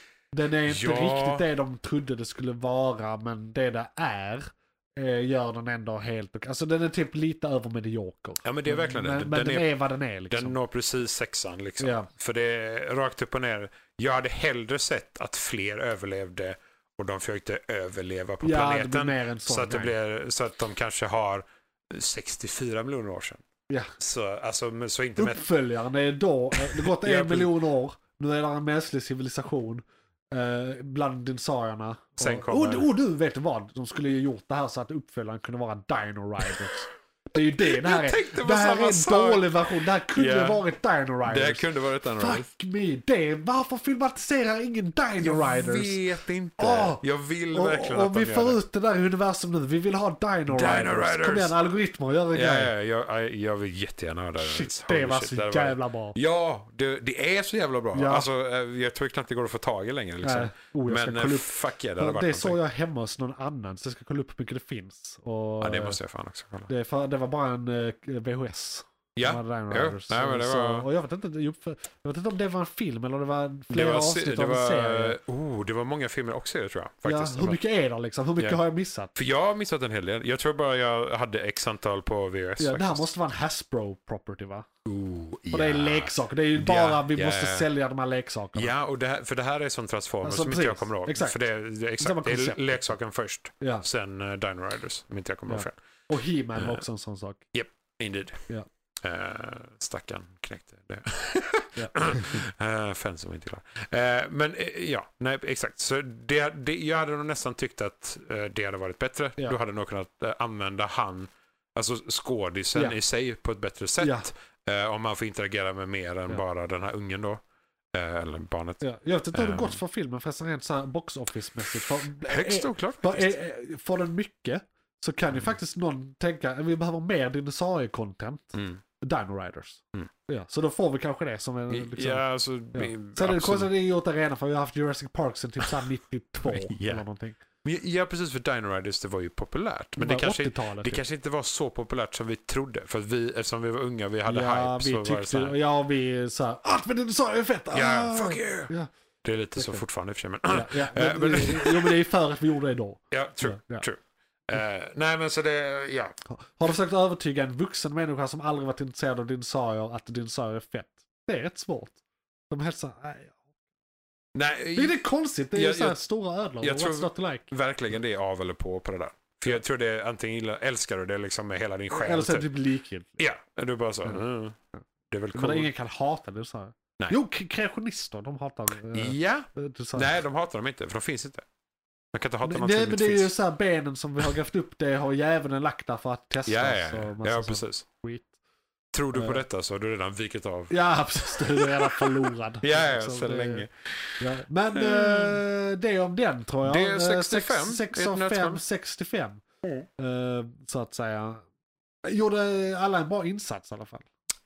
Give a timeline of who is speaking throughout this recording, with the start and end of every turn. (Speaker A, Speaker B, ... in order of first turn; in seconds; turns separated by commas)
Speaker A: 0.3-10.6, Speaker B: 0.7-1.4, Speaker B: 8.4-9.7, Speaker B: 10.3-23.4, Speaker A: 11.8-12.1, Speaker A: 18.4-19.9, Speaker B: 24.0-25.5, Speaker A: 25.2-46.0, Speaker B: 26.6-27.5, Speaker B: 32.2-32.9, Speaker B: 37.4-39.5, Speaker B: 40.1-40.6, Speaker B: 41.2-42.5, Speaker B: 45.2-48.6, Speaker A: 46.6-52.7, Speaker B: 50.5-51.5, Speaker B: 52.3-62.6, Speaker A: 54.4-56.2, Speaker A: 57.9-58.3, Speaker A: 60.2-66.0, Speaker B: 65.6-66.7, Speaker A: 66.7-75.2, Speaker B: 69.2-70.9, Speaker B: 73.7-77.6, Speaker A: 77.0-79.1, Speaker B: 79.1-83.1, Speaker A: 82.6-84.7, Speaker B: 84.8-87.7, Speaker A: 85.5-88.7, Speaker B: 88.5-95.8, Speaker A: 90.2-91.4, Speaker A: 92.0-92.6, Speaker A: 95.5-97.4, Speaker B: 96.5-96.8, Speaker B: 97.5-98.4, Speaker B: 99.0-117.4, Speaker A: 101.8-102.2, Speaker A: 114.0-114.3, Speaker B: 117.9-118.8, Speaker A: 118.8-137.4, Speaker B: 119.3-119.8, Speaker B: 122.2-123.3, Speaker B: 131.7-133.7, Speaker B: 136.4-137.0, Speaker B: 137.6-145.6, Speaker A: 140.0-141.0, Speaker A: 144.3-148.9, Speaker B: 147.7-148.7, Speaker B: 149.2-151.9, Speaker A: 149.6-149.8, Speaker A: 150.5-153.8, Speaker B: 153.1-156.1, Speaker A: 156.3-162.0, Speaker A: 162.5-163.4, Speaker B: 164.3-165.0, Speaker A: 164.7-167.5, Speaker B: 165.5-166.0, Speaker B: 166.6-172.5, Speaker A: 171.9-173.2, Speaker B: 173.2-174.6, Speaker B: 175.1-175.7, Speaker A: 175.3-180.1, Speaker B: 178.9-181.4, Speaker B: 182.1-183.3, Speaker A: 182.4-188.3, Speaker B: 186.4-187.8, Speaker B: 188.9-194.2, Speaker A: 189.1-189.4, Speaker A: 190.7-193.7, Speaker A: 194.2-199.4, Speaker B: 194.7-195.4, Speaker B: 196.6-198.6, Speaker A: 200.0-201.4, Speaker A: 202.0-204.1